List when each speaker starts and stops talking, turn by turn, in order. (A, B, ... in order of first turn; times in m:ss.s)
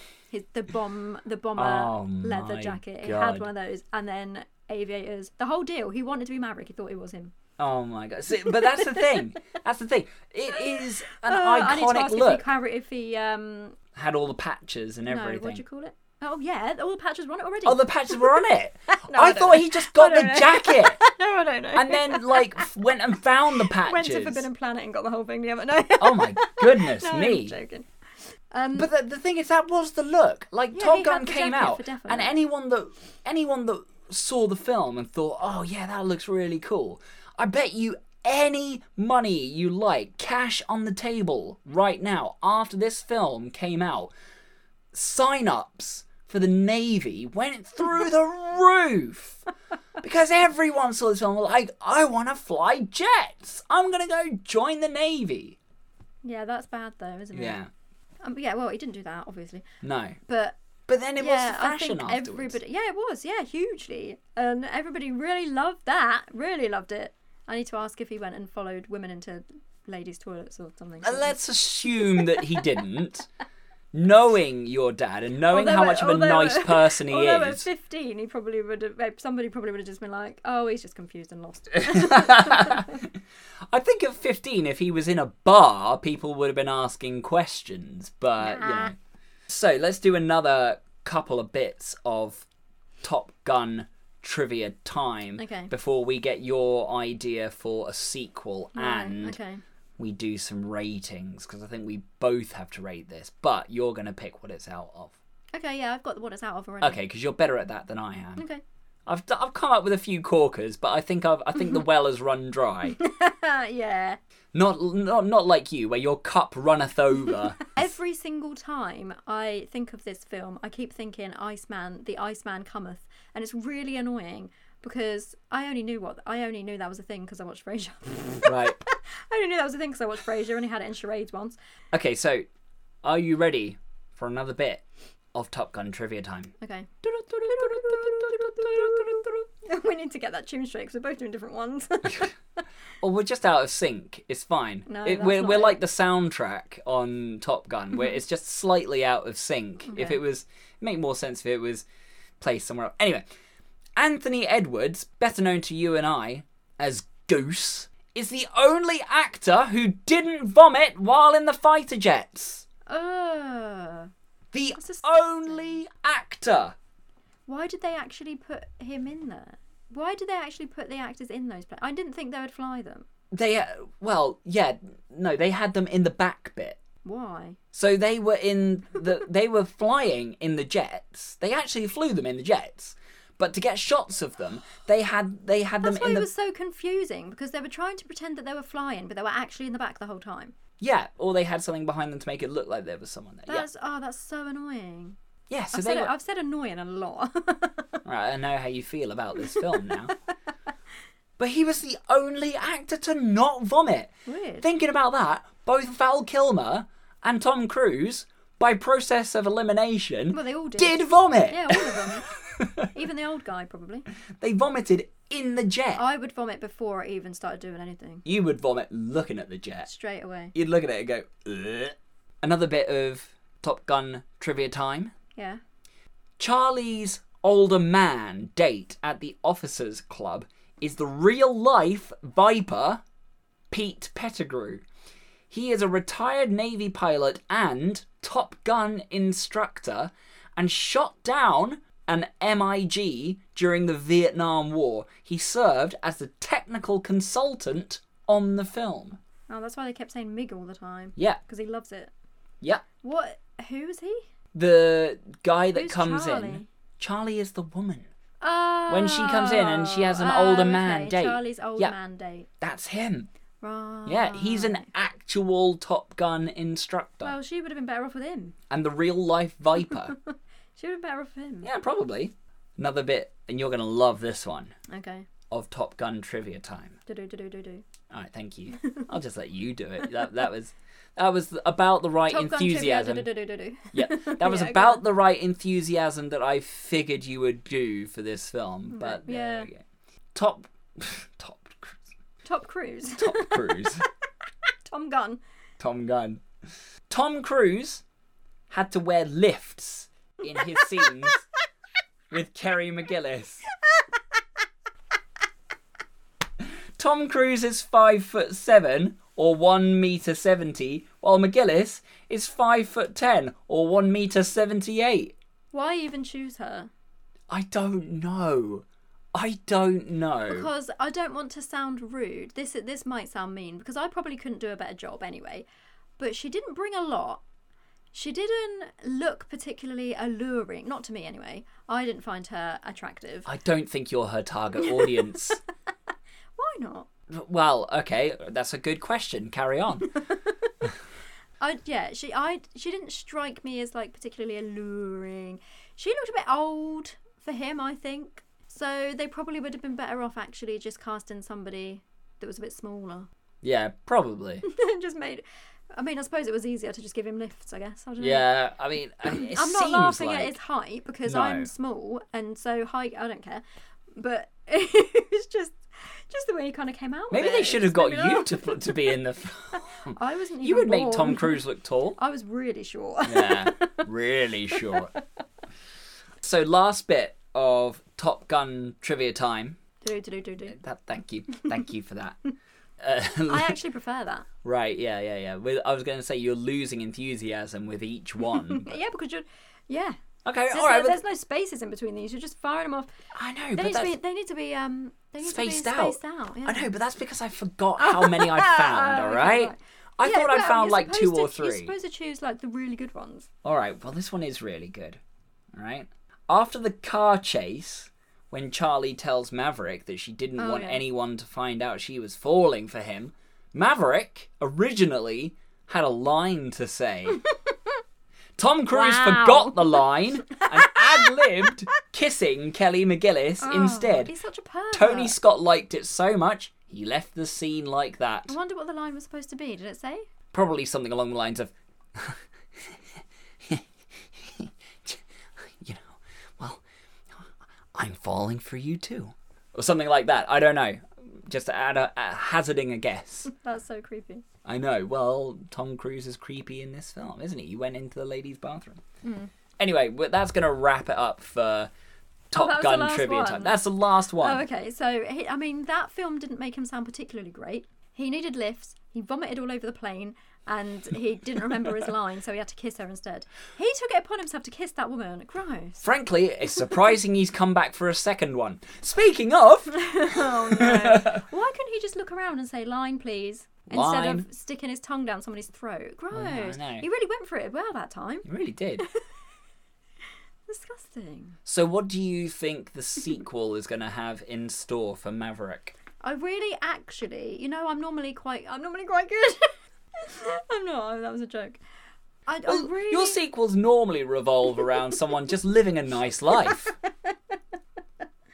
0:00.3-0:07.4 A
0:01.6-0:03.5 B
0:07.6-0:12.5 B
0:08.4-0:09.2 A
0:11.1-0:13.8 A
0:13.9-0:15.6 B
0:15.1-0:22.7 A
0:17.6-0:21.0 B
0:21.8-0:24.5 B
0:23.5-0:27.9 A
0:26.0-0:27.6 B
0:28.5-0:28.9 A
0:28.8-0:44.1 B
0:30.7-0:32.4 A
0:44.9-0:49.4 B
0:50.0-0:55.6 B
0:56.2-0:57.6 A
0:57.3-0:57.7 B
0:58.2-0:59.6 A
0:59.8-1:00.2 B
1:00.3-1:00.6 A
1:00.9-1:02.6 B
1:01.2-1:11.4 A
1:11.0-1:13.3 B
1:11.9-1:12.6 A
1:13.9-1:17.7 B
1:15.5-1:23.0 A
1:21.8-1:23.1 B
1:23.7-1:29.0 B
1:28.4-1:29.0 A
1:29.5-1:32.5 B
1:33.0-1:39.4 B
1:35.4-1:35.7 A
1:38.8-1:39.6 A
1:40.0-1:45.2 B
1:45.5-1:47.0 A
1:46.8-1:48.4 B
1:48.4-1:48.6 A
1:49.1-1:53.0 B
1:53.0-1:54.2 A
1:54.5-1:57.8 B
1:57.7-2:11.6 A
2:08.4-2:08.8 B
2:11.9-2:12.5 B
2:13.0-2:14.8 B
2:15.3-2:19.3 B
2:16.6-2:22.3 A
2:23.0-2:31.8 B
2:24.9-2:25.8 A
2:29.9-2:30.2 A
2:32.4-2:33.2 B
2:34.0-2:42.6 B
2:42.9-2:44.1 A
2:44.5-2:46.8 B
2:44.8-2:45.8 A
2:47.5-2:53.1 A
2:53.3-2:56.8 B
2:57.0-2:57.6 A
2:57.7-3:06.3 B
3:05.8-3:10.6 A
3:10.8-3:13.7 B
3:13.5-3:15.2 A
3:15.5-3:16.1 B
3:15.7-3:18.0 A
3:18.0-3:20.2 B
3:19.5-3:19.9 A
3:21.4-3:24.1 B
3:24.3-3:24.7 A
3:24.6-3:32.9 B
3:30.3-3:32.3 A
3:32.9-3:34.1 A
3:34.4-3:36.0 B
3:36.0-3:38.2 A
3:38.2-3:39.9 B
3:39.8-3:40.6 A
3:40.6-3:45.1 B
3:45.4-3:45.6 A
3:46.4-3:53.0 B
3:53.7-3:54.8 B
3:55.5-4:09.2 B
4:09.5-4:12.1 A
4:13.0-4:14.2 A
4:14.5-4:18.1 B
4:15.8-4:16.7 A
4:18.4-4:22.5 A
4:18.9-4:22.0 B
4:22.6-4:23.3 B
4:23.6-4:24.9 A
4:24.0-4:27.4 B
4:27.2-4:28.6 A
4:28.7-4:30.2 B
4:30.2-4:31.7 A
4:31.6-4:34.8 B
4:34.9-4:35.3 A
4:35.5-4:37.0 B
4:37.1-4:37.8 A
4:38.1-4:43.3 B
4:38.8-4:39.1 A
4:42.3-4:45.0 A
4:43.9-4:49.8 B
4:48.9-4:49.7 A
4:50.4-4:52.1 B
4:52.4-4:54.0 A
4:53.2-4:54.1 B
4:54.9-4:55.4 A
4:55.8-4:56.4 B
4:57.1-4:58.0 B
4:58.7-5:01.4 B
5:00.6-5:01.1 A
5:02.3-5:03.6 B
5:06.6-5:15.3 B
5:15.7-5:16.9 A
5:17.5-5:20.7 B
5:20.5-5:25.6 A
5:26.2-5:27.4 A
5:28.1-5:33.5 A
5:33.4-5:35.6 B
5:34.8-5:35.2 A
5:36.6-5:37.1 A
5:37.3-5:40.1 B
5:40.3-5:40.7 A
5:41.6-5:53.3 A
5:53.6-5:54.6 B
5:54.6-5:55.4 A
5:55.9-5:58.5 A
5:58.2-6:00.6 B
5:59.3-6:03.6 A
6:01.3-6:01.7 B
6:04.2-6:09.1 A
6:07.3-6:12.2 B
6:10.2-6:11.6 A
6:12.2-6:14.1 A
6:13.2-6:15.1 B
6:14.8-6:15.2 A
6:16.4-6:19.8 B
6:20.0-6:20.8 A
6:20.7-6:22.4 B
6:23.0-6:23.8 B
6:23.5-6:24.5 A
6:24.6-6:29.0 B
6:28.5-6:30.2 A
6:30.4-6:31.2 B
6:30.7-6:33.1 A
6:33.3-6:34.2 B
6:33.8-6:36.9 A
6:35.4-6:41.9 B
6:38.0-6:43.5 A
6:43.6-6:45.2 B
6:45.7-6:57.4 B
6:50.6-6:51.0 A
6:58.6-7:04.3 B
6:58.9-7:01.7 A
7:03.6-7:05.4 A
7:04.9-7:08.6 B
7:08.5-7:10.2 A
7:10.5-7:13.0 B
7:13.6-7:23.5 B
7:23.5-7:24.4 A
7:24.6-7:29.0 B
7:29.2-7:29.5 A
7:29.8-7:31.9 B
7:32.5-7:34.6 B
7:32.5-7:33.8 A
7:34.4-7:46.0 A
7:46.0-7:51.4 B
7:49.9-7:58.5 A
7:53.9-7:54.5 B
7:56.3-7:57.1 B
7:58.4-7:59.1 B
8:00.7-8:01.6 A
8:01.7-8:06.0 B
8:06.2-8:11.8 A
8:12.5-8:13.4 A
8:12.7-8:16.9 B
8:16.6-8:17.3 A